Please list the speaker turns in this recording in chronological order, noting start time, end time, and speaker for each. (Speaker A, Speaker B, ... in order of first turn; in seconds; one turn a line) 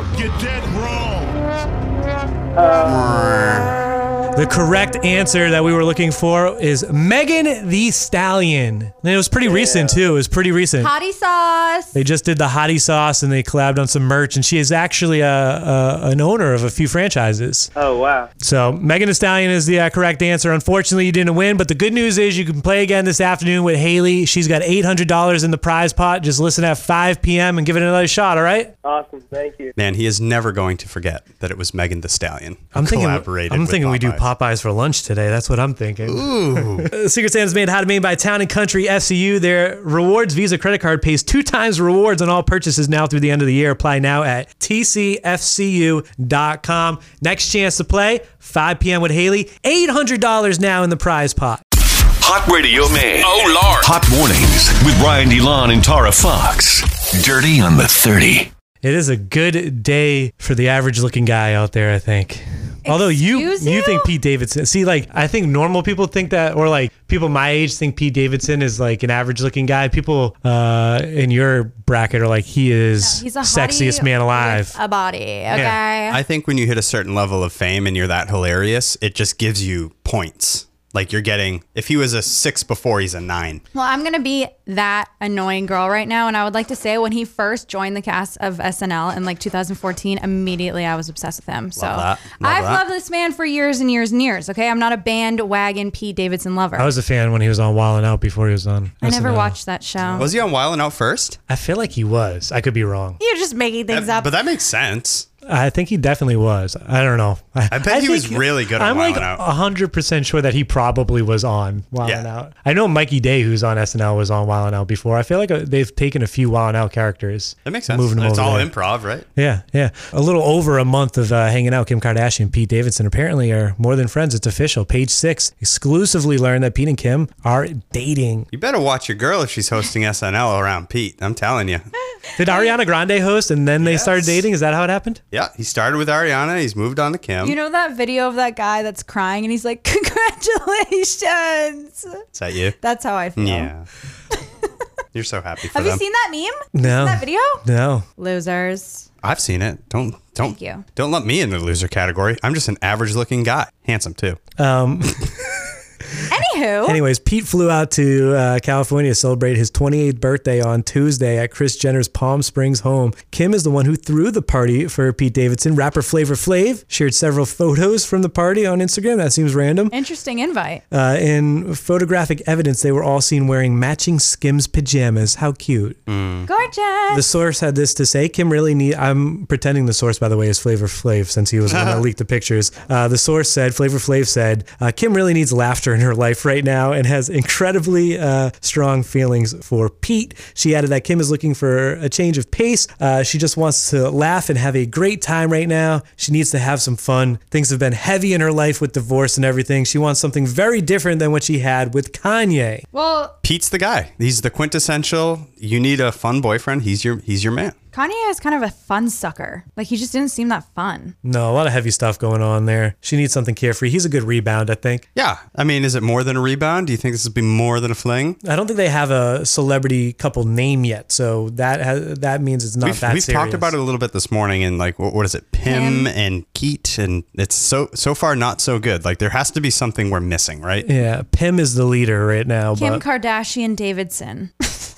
Speaker A: 0.2-1.2
Speaker B: 2.6-3.1
Speaker C: 2.9-3.8
Speaker A: 4.3-10.9
Speaker B: 9.4-10.0
Speaker D: 10.8-11.9
Speaker A: 11.9-17.7
Speaker B: 17.8-18.3
Speaker A: 18.4-28.7
Speaker B: 28.8-29.7
Speaker C: 29.8-34.3
Speaker A: 32.8-51.6
Speaker C: 36.0-36.9
Speaker E: 52.2-58.5
Speaker A: 58.8-74.8
Speaker D: 62.9-64.1
Speaker D: 73.0-76.2
Speaker A: 75.5-75.8
Speaker C: 75.5-83.6
Speaker D: 83.7-96.9
Speaker C: 91.8-92.8
Speaker A: 96.8-99.6
Speaker D: 99.0-100.3
Speaker C: 100.2-101.4
Speaker A: 101.5-103.2
Speaker D: 103.2-104.3
Speaker C: 103.9-105.3
Speaker A: 105.5-118.7
Speaker C: 107.7-109.4
Speaker C: 117.7-119.3
Speaker A: 119.4-128.5
Speaker C: 128.5-131.9
Speaker A: 132.4-135.2
Speaker D: 132.4-132.7
Speaker C: 133.8-134.4
Speaker C: 135.3-137.6
Speaker D: 137.4-142.2
Speaker C: 142.3-142.8
Speaker D: 142.8-143.7
Speaker C: 143.4-143.9
Speaker D: 144.3-144.7
Speaker C: 145.1-146.0
Speaker D: 145.7-147.6
Speaker A: 146.8-148.1
Speaker D: 148.2-149.1
Speaker C: 149.2-154.4
Speaker D: 150.4-150.8
Speaker A: 154.6-155.3
Speaker D: 156.3-157.0
Speaker A: 156.9-169.9
Speaker D: 169.9-170.8
Speaker A: 170.9-176.0
Speaker C: 176.1-176.5
Speaker D: 176.5-177.2
Speaker A: 177.1-202.9
Speaker C: 181.7-182.0
Speaker D: 202.9-203.3
Speaker C: 203.4-207.8
Speaker D: 207.9-211.2
Speaker A: 211.2-215.1
Speaker C: 215.2-218.4
Speaker A: 218.4-223.7
Speaker C: 222.8-230.9
Speaker D: 225.7-226.1
Speaker A: 230.8-233.0
Speaker D: 232.8-234.9